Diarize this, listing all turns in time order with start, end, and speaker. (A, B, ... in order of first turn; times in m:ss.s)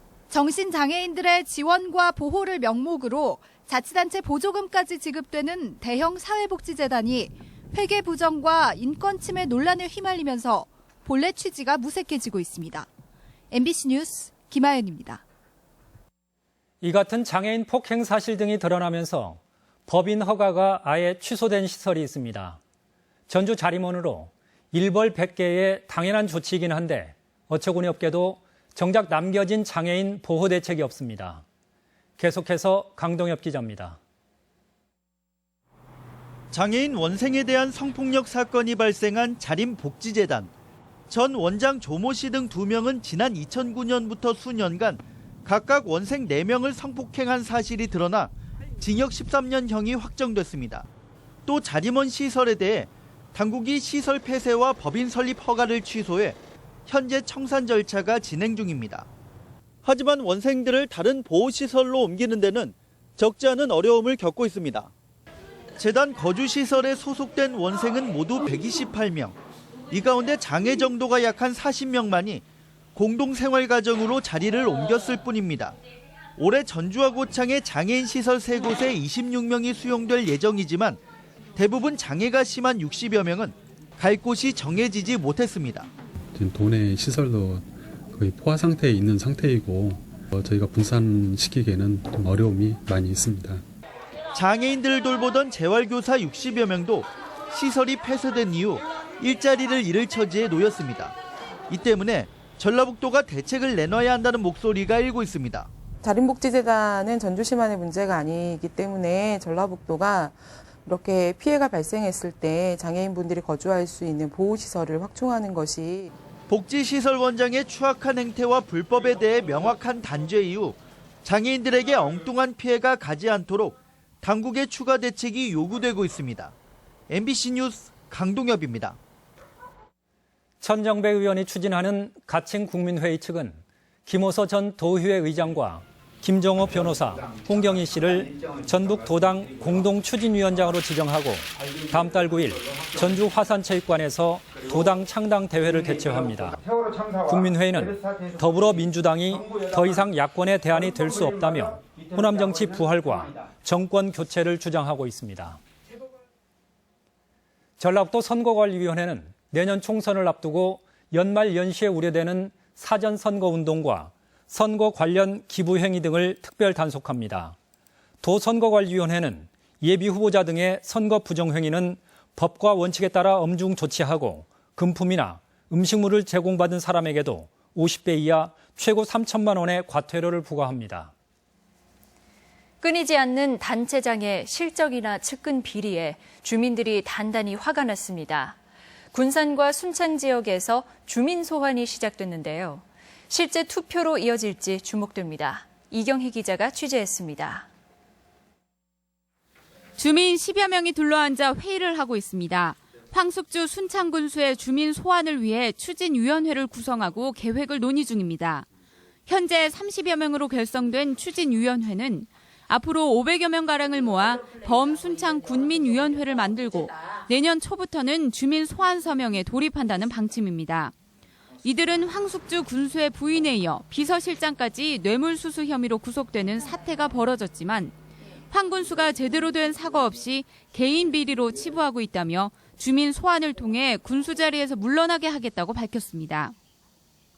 0:00.3-0:12.9 A
0:13.5-0:15.2 A
0:16.8-0:22.6 B
0:23.3-0:31.4 B
0:32.2-0:34.0 B
0:36.5-0:40.5 C
0:41.1-0:50.8 C
0:51.4-0:59.1 C
0:59.8-1:04.9 C
1:05.8-1:09.4 C
1:09.9-1:12.4 C
1:12.9-1:15.7 C
1:16.4-1:21.0 C
1:21.6-1:25.9 C
1:26.3-1:33.6 D
1:34.3-1:41.1 C
1:41.7-1:45.7 C
1:46.0-1:56.1 E
1:56.5-2:06.5 C
2:07.1-2:09.0 C
2:10.6-2:26.6 B
2:27.2-2:35.6 B
2:37.8-2:47.6 B
2:48.2-3:01.1 B
3:02.8-3:08.6 F
3:09.1-3:17.7 F
3:20.0-3:28.6 G
3:29.3-3:40.9 G
3:41.6-3:47.9 G
3:48.5-3:56.5 G